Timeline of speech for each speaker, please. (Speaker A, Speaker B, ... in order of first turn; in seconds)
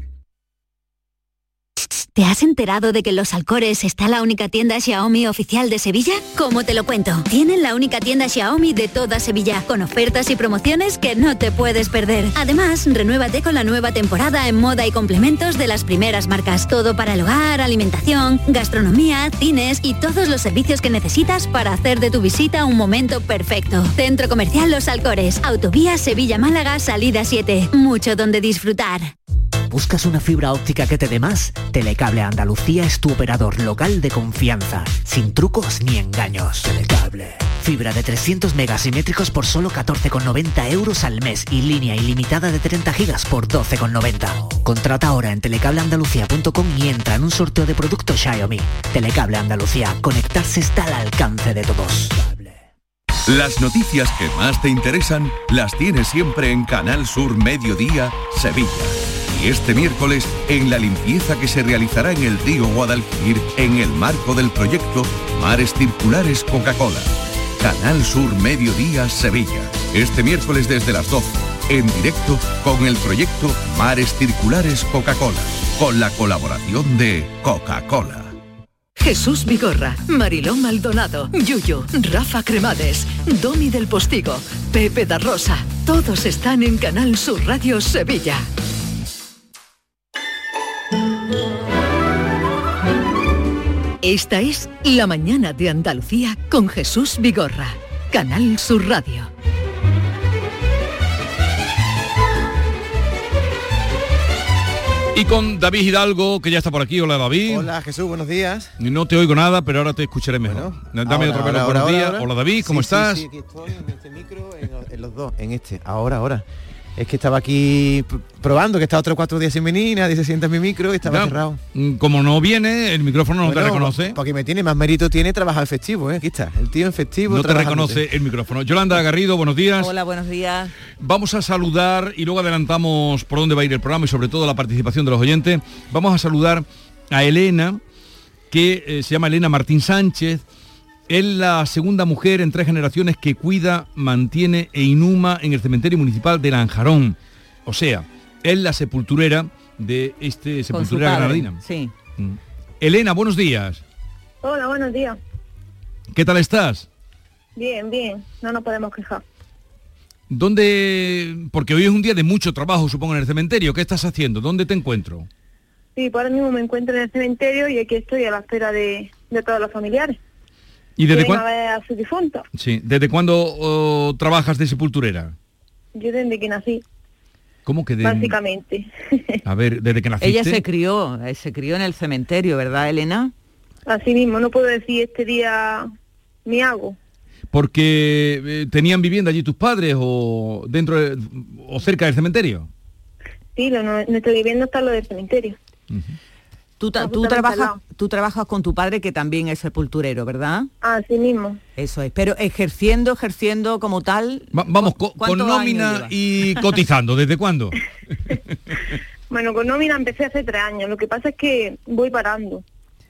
Speaker A: 1.9-29.1
Speaker B: 29.7-52.4
Speaker C: 53.2-78.3
Speaker D: 79.0-88.5, 94.0-99.3
Speaker E: 105.1-107.7, 108.8-113.2, 121.0-124.2, 127.3-129.9, 131.0-137.8, 138.5-140.4, 141.1-151.6, 152.2-153.8, 156.1-156.9, 160.3-165.3, 171.0-171.4, 172.6-175.3, 177.7-178.3, 179.4-180.6, 187.5-192.7, 195.9-196.2, 204.5-207.8
Speaker F: 107.5-108.7, 110.5-116.4, 117.0-121.6, 123.4-128.0
Speaker G: 129.8-130.7, 150.7-151.9, 180.2-183.3, 196.8-200.7, 201.8-206.6
Speaker H: 154.4-155.2, 157.6-159.2, 165.9-170.2, 171.1-172.4, 175.9-176.8, 178.0-179.4, 183.9-185.9, 186.4-187.0, 193.6-195.6, 197.0-197.8, 200.8-201.6, 209.3-212.6